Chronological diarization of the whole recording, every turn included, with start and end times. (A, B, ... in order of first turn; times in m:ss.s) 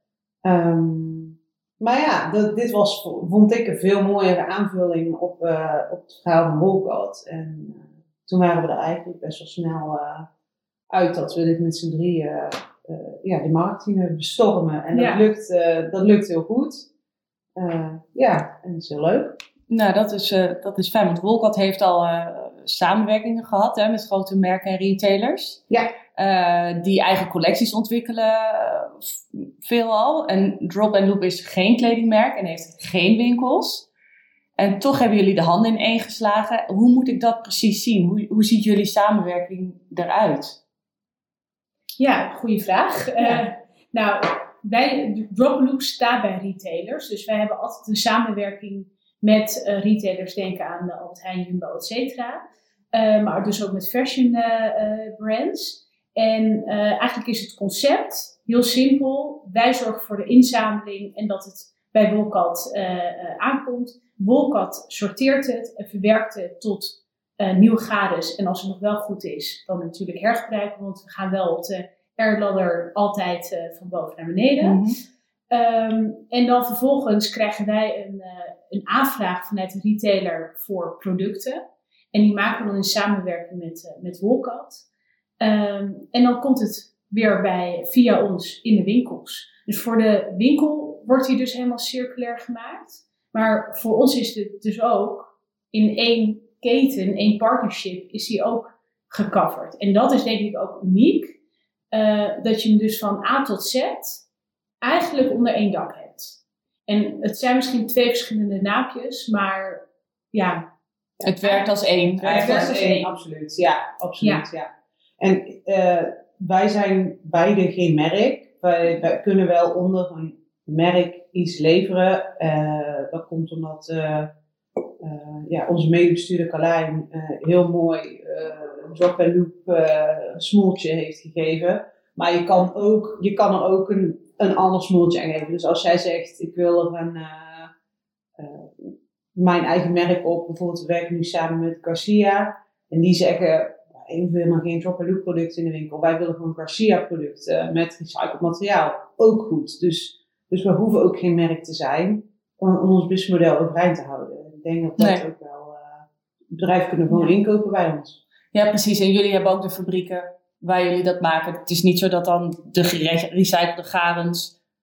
0:00.4-0:10.3 A
0:10.9-0:16.9 A
0:14.9-0:15.2 B
0:17.6-0:19.4 A
0:19.7-0:25.6 C
0:26.2-0:33.9 C
0:34.6-0:40.6 C
0:42.0-0:52.4 B
0:52.9-1:14.8 B
1:14.6-1:15.0 C
1:15.5-1:21.6 B
1:22.1-1:24.8 B
1:25.4-1:41.4 B
1:41.9-1:44.2 B
1:44.8-1:50.7 B
1:51.2-1:53.1 C
1:51.4-1:51.7 B
1:52.2-2:04.3 A
1:52.3-1:53.0 B
1:54.2-1:54.5 B
2:05.0-2:17.7 A
2:18.4-2:38.2 A
2:38.5-2:44.6 C